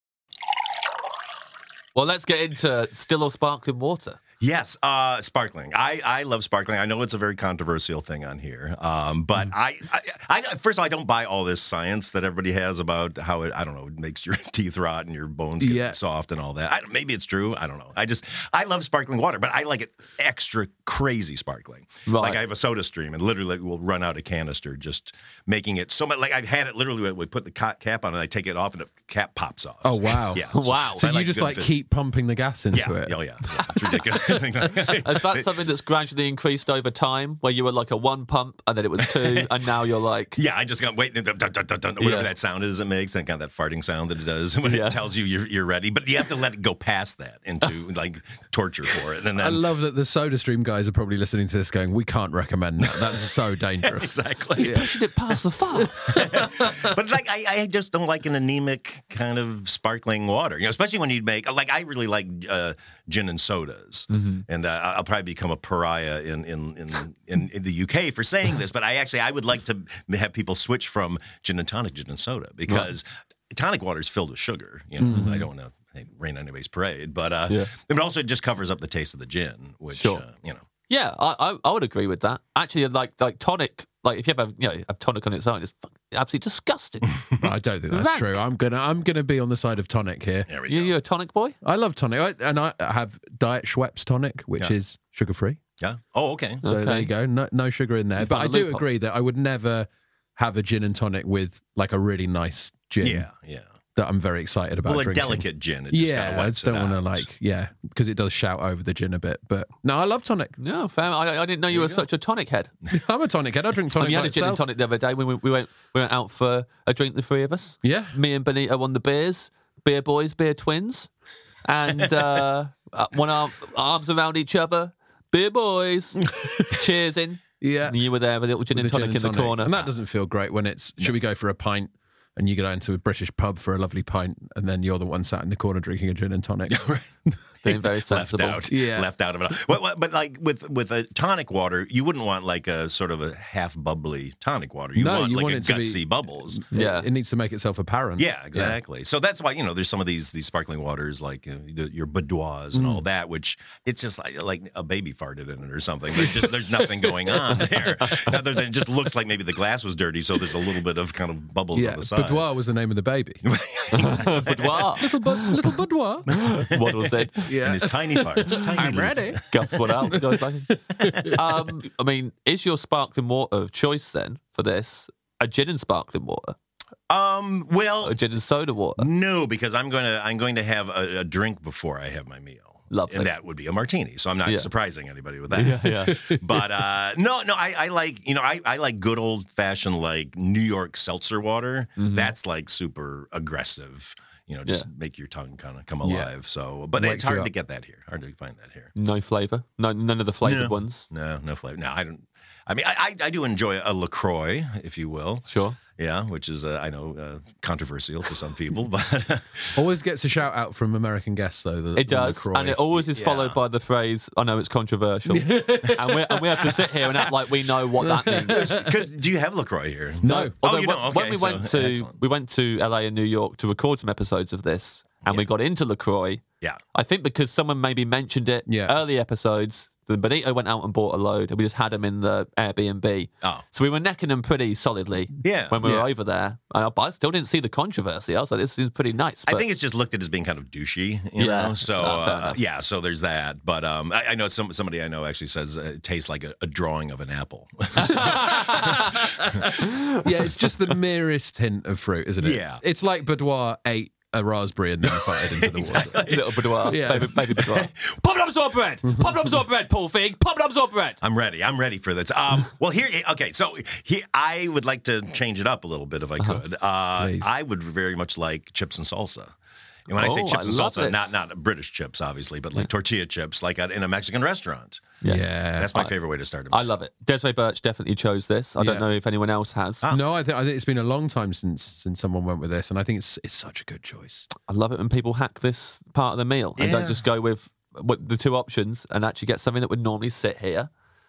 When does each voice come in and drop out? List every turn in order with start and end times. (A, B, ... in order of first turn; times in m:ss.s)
0:02.0-0:04.2 A
0:04.4-0:31.7 B
0:15.6-0:16.0 C
0:22.1-0:22.4 A
0:29.8-0:34.4 C
0:30.5-0:31.1 A
0:32.7-0:35.5 B
0:35.0-0:40.4 A
0:40.4-0:49.6 B
0:42.0-0:42.3 A
0:44.6-0:45.0 A
0:49.4-0:54.9 C
0:52.9-0:53.2 B
0:53.8-0:55.0 B
0:54.6-0:56.1 A
0:55.8-0:56.9 C
0:56.0-1:20.6 B
1:04.1-1:04.4 A
1:15.0-1:15.4 C
1:15.0-1:15.5 A
1:20.0-1:20.2 A
1:20.9-1:27.2 A
1:27.4-1:30.5 C
1:27.9-1:28.4 A
1:30.5-1:31.0 B
1:30.7-1:31.6 A
1:31.6-1:35.6 C
1:35.8-1:36.6 B
1:36.6-1:37.1 A
1:36.6-1:43.3 C
1:38.2-1:38.8 A
1:43.0-1:43.7 B
1:44.0-1:50.6 C
1:44.8-1:47.2 B
1:50.6-1:52.7 A
1:51.7-1:52.0 B
1:52.9-1:54.6 C
1:53.9-2:01.1 A
1:57.8-1:58.2 C
2:01.6-2:09.8 A
2:07.6-2:08.0 C
2:08.7-2:16.9 C
2:16.7-2:17.0 B
2:17.6-2:18.7 A
2:17.7-2:26.6 B
2:18.7-2:19.1 C
2:25.0-2:28.8 C
2:26.7-2:27.1 A
2:28.2-2:42.5 B
2:32.7-2:33.0 C
2:41.7-2:43.4 C
2:43.4-2:45.0 B
2:43.9-2:45.6 A
2:45.0-2:46.3 C
2:46.3-2:50.2 B
2:46.3-2:47.4 A
2:47.5-2:49.6 C
2:49.5-2:50.8 A
2:50.1-2:50.4 C
2:51.0-2:51.4 C
2:51.0-2:51.4 B
2:51.3-2:56.6 A
2:57.1-2:58.2 B
2:58.0-2:59.1 A
2:59.0-3:18.9 B
3:02.9-3:03.3 A
3:05.5-3:06.6 A
3:12.0-3:12.3 A
3:16.0-3:16.3 C
3:16.9-3:17.5 C
3:19.0-3:21.1 A
3:20.4-3:29.8 B
3:25.5-3:25.8 A
3:29.8-3:33.0 C
3:32.0-3:38.8 A
3:33.1-3:33.6 B
3:35.3-3:36.6 C
3:36.6-3:36.9 B
3:38.0-3:38.9 C
3:38.3-3:42.2 B
3:40.2-3:40.5 C
3:40.2-3:46.4 A
3:46.9-3:59.6 A
3:48.7-3:49.0 C
3:55.4-3:55.8 B
3:55.8-3:56.1 C
3:59.5-4:09.8 B
4:01.4-4:02.6 A
4:08.1-4:09.0 A
4:08.8-4:09.7 C
4:10.2-4:16.2 C
4:12.4-4:12.8 B
4:15.0-4:17.9 B
4:16.2-4:21.2 A
4:16.9-4:17.4 C
4:19.1-4:19.3 C
4:21.2-4:29.5 B
4:27.2-4:27.5 C
4:30.1-4:35.2 B
4:30.2-4:31.4 A
4:35.2-4:36.1 A
4:35.3-4:35.9 C
4:35.8-4:37.0 B
4:36.7-4:40.0 A
4:38.8-4:39.1 C
4:40.1-4:44.5 C
4:44.7-4:50.9 A
4:46.8-4:47.2 B